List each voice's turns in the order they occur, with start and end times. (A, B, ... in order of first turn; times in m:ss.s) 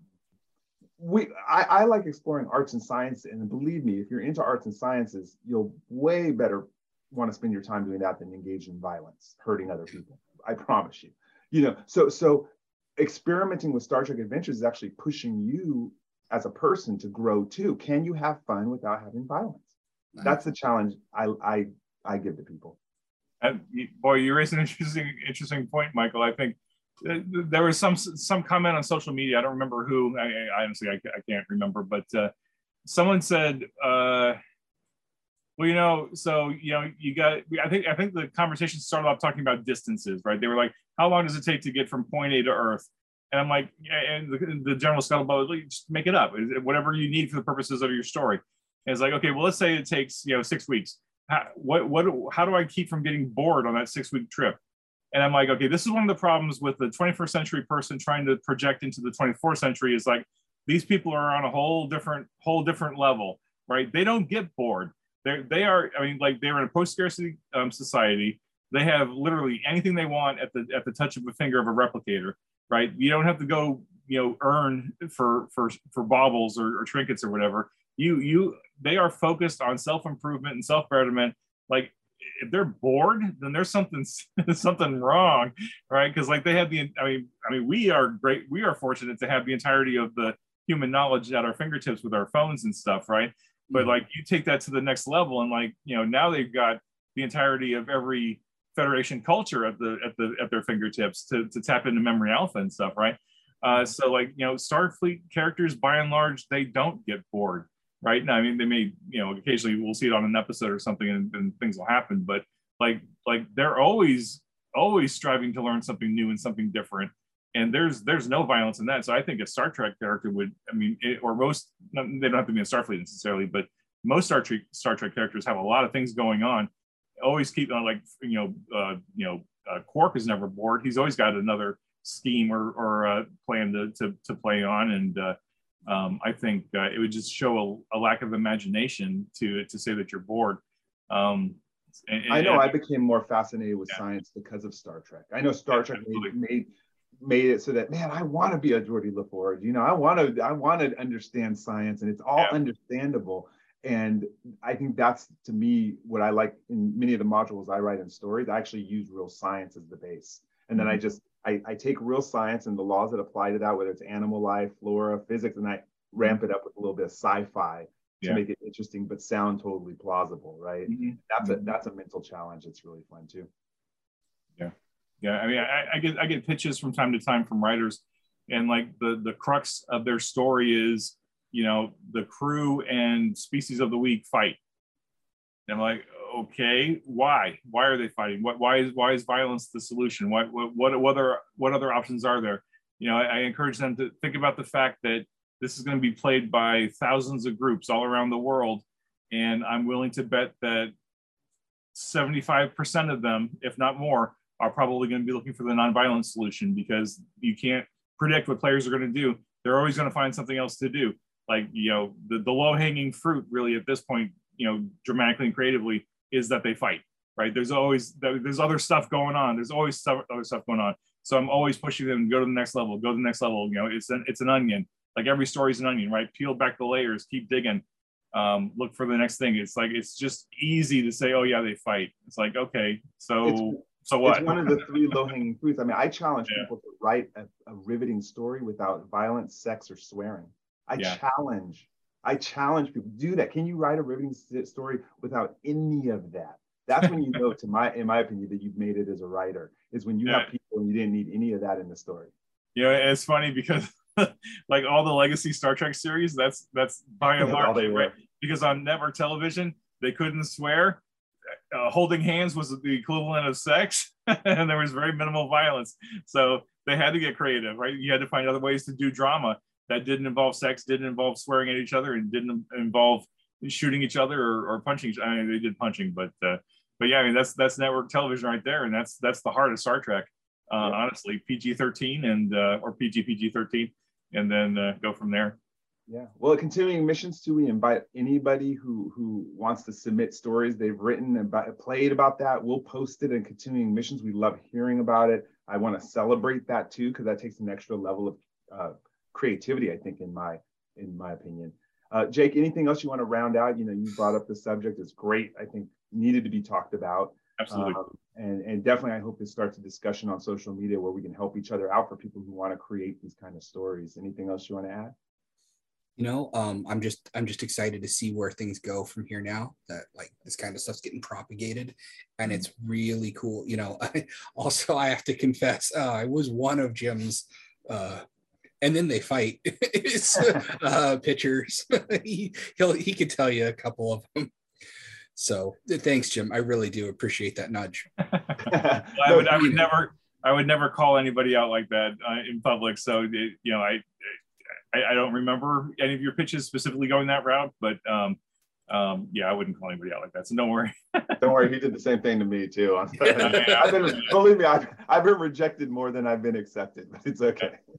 0:01.0-0:19.7 A
0:20.2-0:22.8 A
0:23.4-0:32.3 B
0:32.9-0:34.4 B
0:35.6-0:54.6 B
0:55.1-2:06.7 B
2:07.2-2:15.4 B
2:15.9-2:22.7 B
2:22.3-2:53.5 A
2:25.7-2:26.3 B
2:50.9-2:51.7 B
2:54.6-3:04.6 B
3:05.7-3:20.9 B
3:21.9-3:55.1 B
3:53.4-4:12.3 A
4:12.8-4:21.0 B
4:17.2-4:18.2 A
4:21.7-4:45.6 B
4:46.1-5:15.2 A
5:07.6-5:08.0 B
5:16.2-5:28.2 C
5:28.8-5:34.5 C
5:35.4-5:38.1 C
5:38.2-5:44.3 B
5:38.7-5:39.8 A
5:44.9-5:51.5 B
5:51.4-5:57.8 A
5:53.2-5:54.4 B